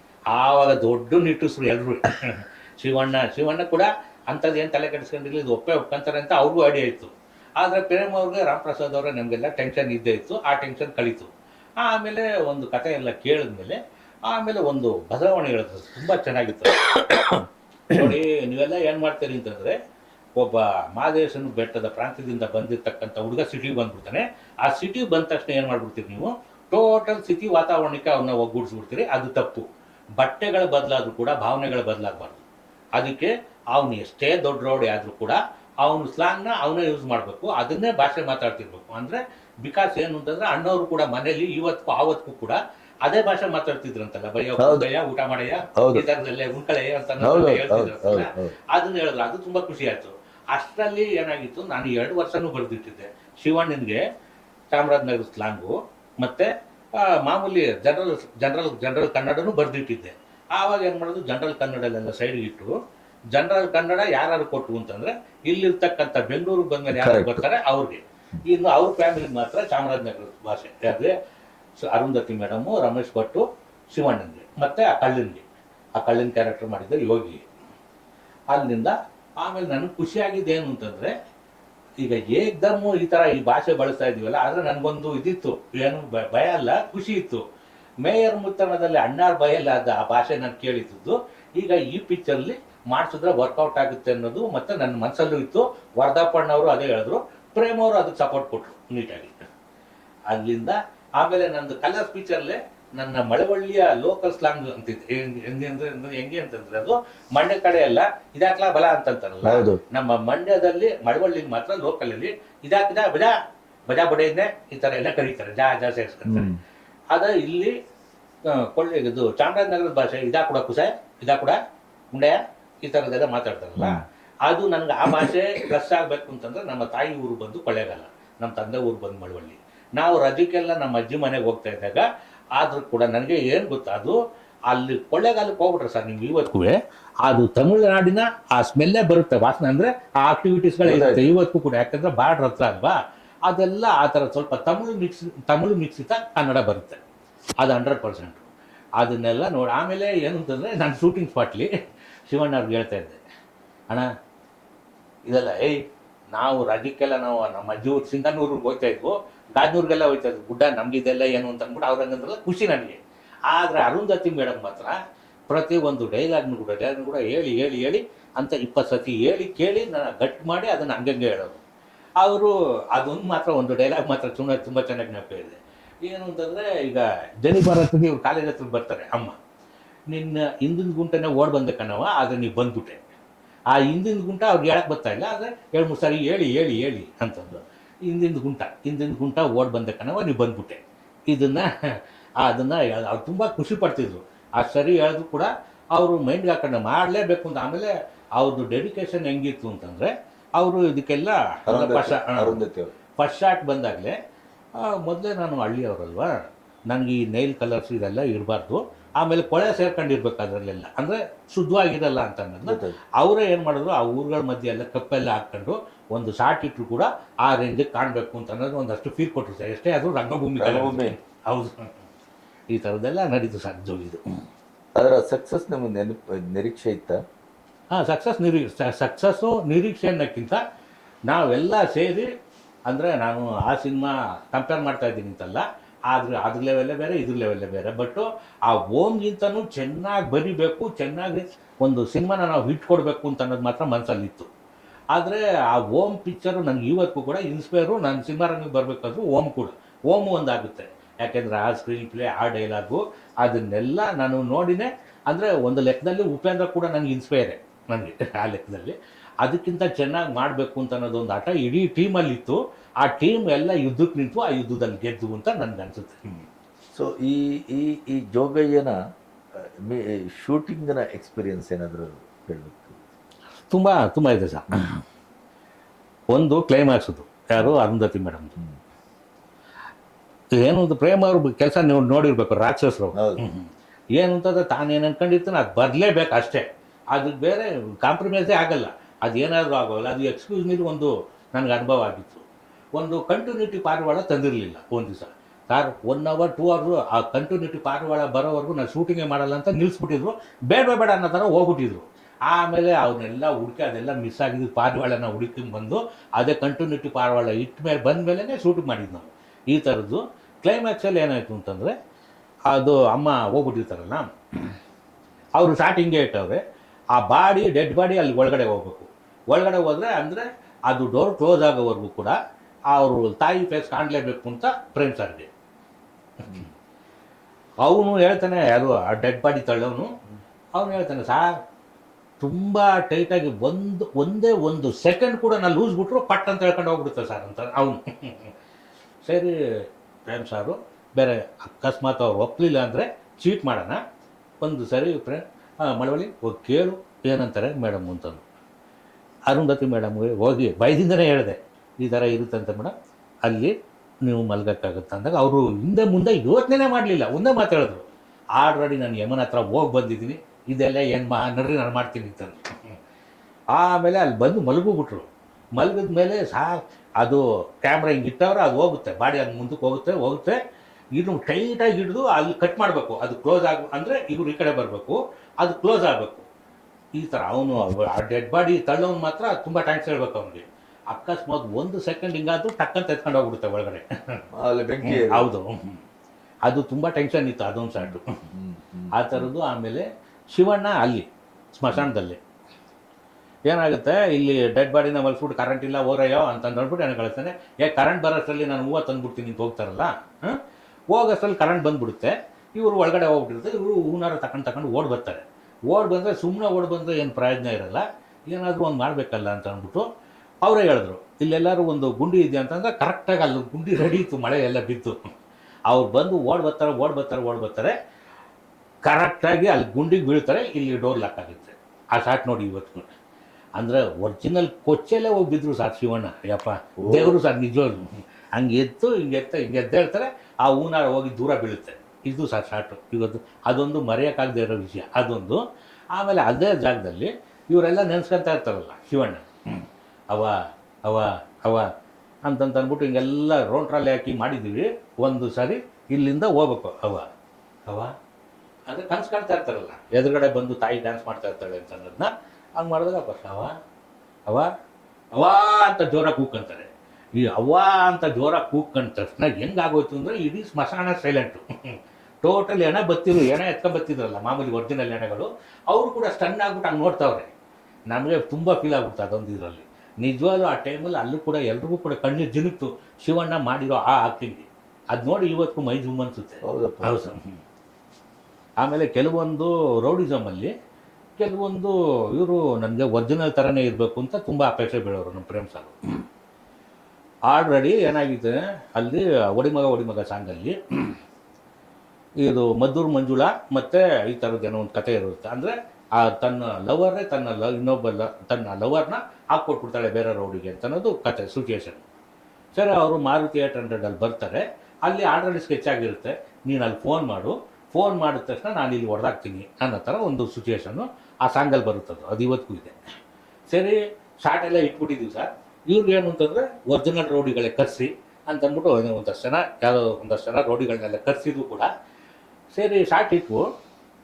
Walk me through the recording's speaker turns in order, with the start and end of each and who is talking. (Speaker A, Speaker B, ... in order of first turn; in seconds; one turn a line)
Speaker A: 0.3-19.7
Speaker A: 20.4-29.6
Speaker A: 30.2-32.4
Speaker A: 33.0-54.0
Speaker B: 44.6-44.9
Speaker B: 45.8-46.0
Speaker B: 47.2-48.5
Speaker A: 54.7-62.7
Speaker A: 63.3-71.1
Speaker B: 66.9-67.4
Speaker A: 71.8-75.5
Speaker A: 76.0-77.5
Speaker A: 78.5-81.1
Speaker A: 82.0-87.4
Speaker A: 88.0-99.3
Speaker A: 100.3-113.3
Speaker B: 109.4-109.8
Speaker A: 113.9-116.5
Speaker B: 116.2-116.6
Speaker A: 117.1-117.7
Speaker A: 118.5-121.6
Speaker A: 122.1-132.1
Speaker B: 123.8-124.0
Speaker A: 132.6-134.2
Speaker A: 134.7-147.0
Speaker B: 140.8-141.3
Speaker A: 147.6-148.5
Speaker A: 149.0-151.7
Speaker A: 152.3-153.2
Speaker A: 155.3-155.8
Speaker A: 156.3-165.0
Speaker A: 165.5-171.6
Speaker A: 172.2-179.4
Speaker A: 180.1-183.0
Speaker A: 183.7-202.6
Speaker B: 201.7-202.9
Speaker A: 203.2-204.1
Speaker A: 204.8-206.3
Speaker A: 206.9-222.0
Speaker B: 212.6-213.0
Speaker B: 220.6-221.1
Speaker A: 222.7-224.2
Speaker B: 224.9-227.2
Speaker A: 227.9-230.6
Speaker A: 231.3-232.3
Speaker A: 232.9-244.5
Speaker A: 245.1-266.4
Speaker B: 266.9-269.0
Speaker B: 269.6-273.0
Speaker A: 273.7-275.0
Speaker A: 276.3-278.5
Speaker A: 280.6-292.4
Speaker B: 283.1-283.4
Speaker A: 293.0-311.9
Speaker A: 312.7-314.7
Speaker A: 315.6-316.6
Speaker A: 317.1-322.4
Speaker A: 322.9-325.5
Speaker A: 326.4-326.7
Speaker A: 327.8-330.1
Speaker A: 330.8-331.5
Speaker A: 332.4-338.5
Speaker A: 339.2-339.5
Speaker A: 340.3-344.0
Speaker A: 344.6-348.4
Speaker A: 349.5-352.9
Speaker A: 353.4-353.7
Speaker A: 354.2-358.0
Speaker A: 358.6-362.9
Speaker A: 363.7-370.6
Speaker A: 371.2-376.5
Speaker A: 377.2-384.4
Speaker B: 384.5-385.5
Speaker A: 385.1-386.0
Speaker A: 386.7-388.4
Speaker B: 388.5-389.5
Speaker A: 389.1-392.4
Speaker A: 393.7-400.6
Speaker A: 401.1-410.1
Speaker A: 410.6-415.2
Speaker A: 415.9-417.9
Speaker A: 419.1-423.1
Speaker A: 423.8-435.6
Speaker B: 427.0-427.4
Speaker A: 436.1-441.9
Speaker A: 442.4-447.3
Speaker A: 447.9-448.1
Speaker A: 448.9-453.7
Speaker A: 455.4-467.5
Speaker A: 468.1-477.6
Speaker B: 476.6-477.3
Speaker A: 478.8-480.7
Speaker A: 481.4-486.2
Speaker A: 487.5-491.2
Speaker A: 492.4-502.0
Speaker A: 502.7-513.0
Speaker A: 513.7-521.9
Speaker A: 522.7-523.6